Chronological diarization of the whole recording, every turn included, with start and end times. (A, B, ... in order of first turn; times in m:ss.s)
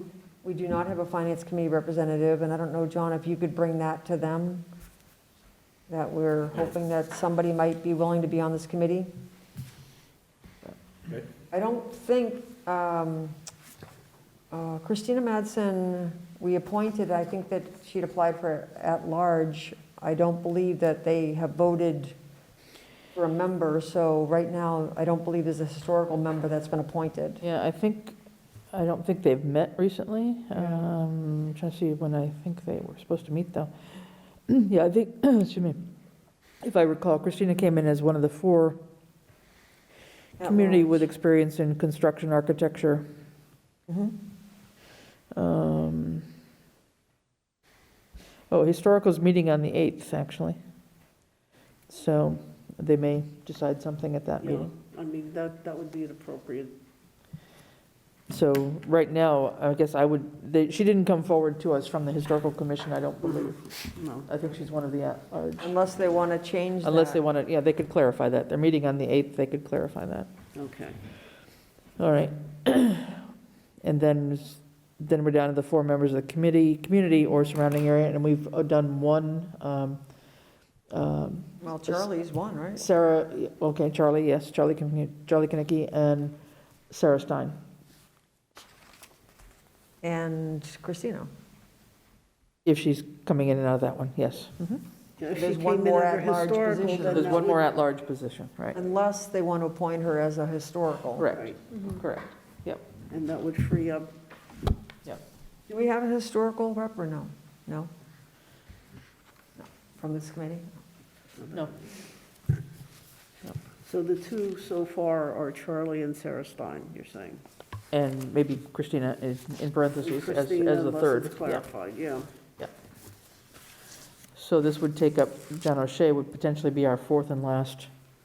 0:00.4-0:04.7 A
0:05.9-0:09.1 A
0:11.5-0:13.4 A
0:14.5-0:22.2 A
0:23.2-0:27.4 A
0:27.4-0:28.2 B
0:28.7-0:35.9 B
0:30.6-0:30.8 A
0:36.6-0:38.8 B
0:40.4-0:41.0 A
0:40.4-0:43.0 B
0:43.9-0:44.2 A
0:45.3-0:46.3 B
0:48.5-0:50.6 B
0:51.9-0:54.7 B
0:54.4-0:56.8 C
0:58.3-1:05.7 B
1:03.2-1:04.3 C
1:05.6-1:07.2 A
1:06.8-1:10.3 B
1:10.6-1:11.0 C
1:12.0-1:13.2 B
1:13.8-1:20.0 B
1:20.9-1:22.0 B
1:21.6-1:22.8 A
1:22.8-1:26.4 B
1:26.9-1:27.6 B
1:30.0-1:31.3 A
1:32.6-1:34.8 B
1:35.2-1:37.7 C
1:35.3-1:37.5 A
1:37.0-1:38.8 B
1:38.7-1:41.4 A
1:41.2-1:42.8 B
1:41.3-1:41.6 C
1:43.1-1:44.1 C
1:45.7-1:47.9 A
1:49.6-1:50.7 A
1:53.8-1:57.4 C
1:57.9-2:01.7 B
2:00.0-2:02.3 C
2:04.3-2:07.9 B